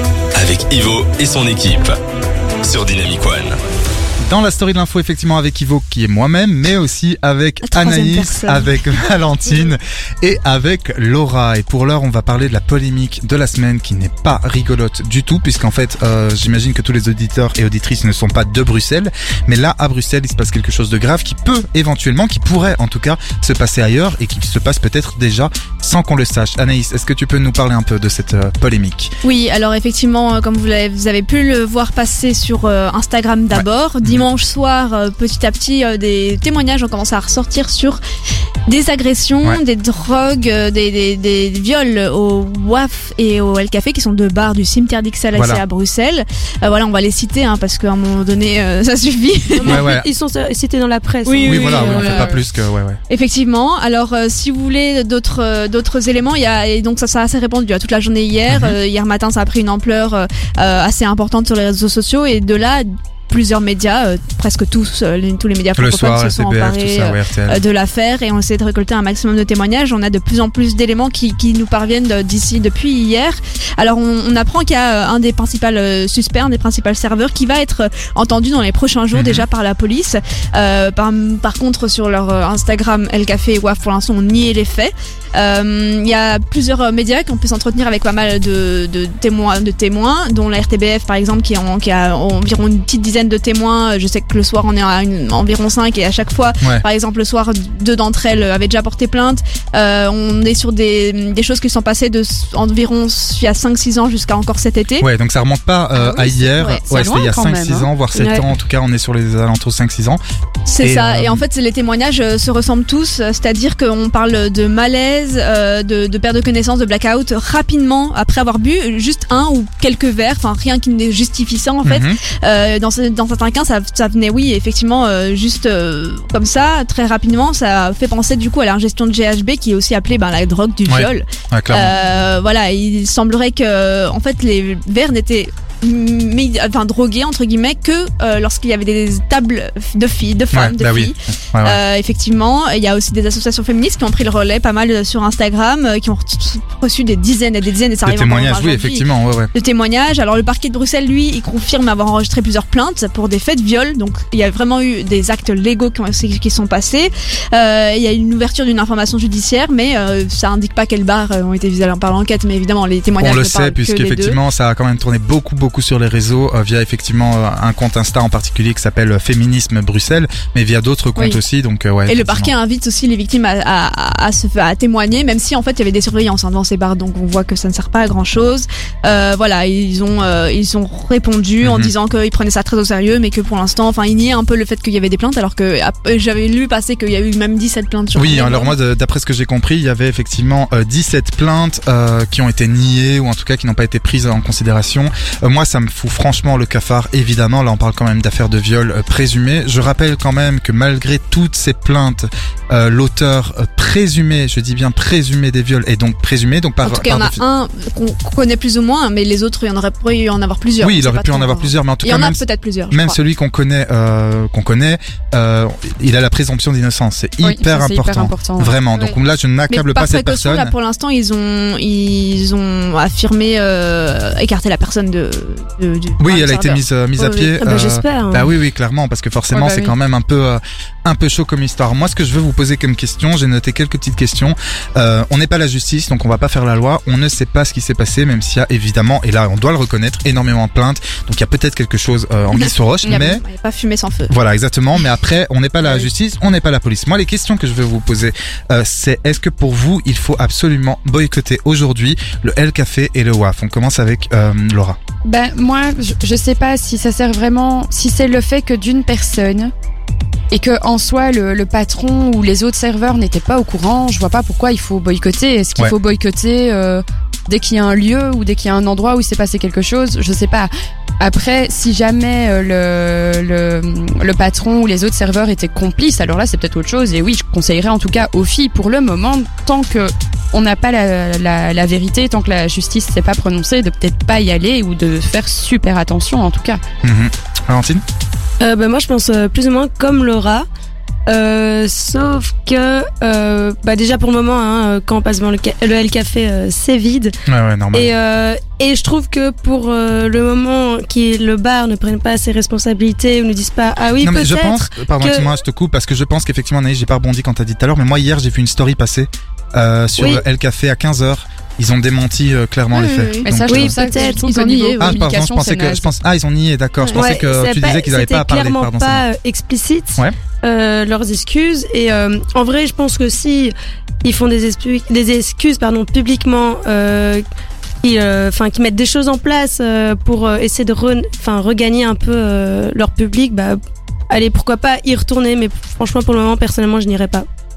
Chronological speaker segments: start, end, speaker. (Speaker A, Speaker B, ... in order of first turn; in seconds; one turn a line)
Speaker A: 0.3-2.0
Speaker A: 2.6-3.6
Speaker B: 4.2-29.1
Speaker C: 7.6-8.7
Speaker C: 29.2-38.0
Speaker B: 33.5-34.3
Speaker C: 38.7-49.9
Speaker B: 45.3-45.6
Speaker D: 49.6-52.4
Speaker B: 49.6-50.0
Speaker C: 51.2-52.4
Speaker B: 51.4-53.0
Speaker C: 53.1-105.0
Speaker B: 58.5-58.8
Speaker B: 65.8-67.6
Speaker B: 79.1-79.4
Speaker B: 105.0-110.2
Speaker E: 106.0-107.9
Speaker D: 108.1-108.4
Speaker C: 110.7-164.4
Speaker B: 110.8-111.4
Speaker B: 121.8-122.2
Speaker B: 130.9-131.9
Speaker B: 140.5-141.8
Speaker B: 148.0-149.5
Speaker B: 163.2-172.5
Speaker C: 172.1-188.8
Speaker B: 181.6-181.9
Speaker B: 188.1-207.4
Speaker C: 206.8-213.2
Speaker B: 210.8-220.7
Speaker E: 217.4-218.8
Speaker C: 219.7-226.8
Speaker B: 226.2-243.4
Speaker D: 227.2-228.5
Speaker E: 229.5-229.9
Speaker C: 242.5-244.3
Speaker E: 243.0-243.3
Speaker B: 244.3-255.0
Speaker E: 255.2-259.7
Speaker E: 260.5-286.8
Speaker B: 287.0-288.0
Speaker D: 288.6-290.7
Speaker D: 291.3-297.4
Speaker B: 297.5-298.1
Speaker D: 297.9-305.5
Speaker B: 304.2-314.0
Speaker D: 310.2-310.4
Speaker C: 312.9-315.2
Speaker E: 313.4-316.1
Speaker D: 313.7-314.4
Speaker B: 315.0-319.2
Speaker D: 317.1-327.4
Speaker D: 328.0-337.5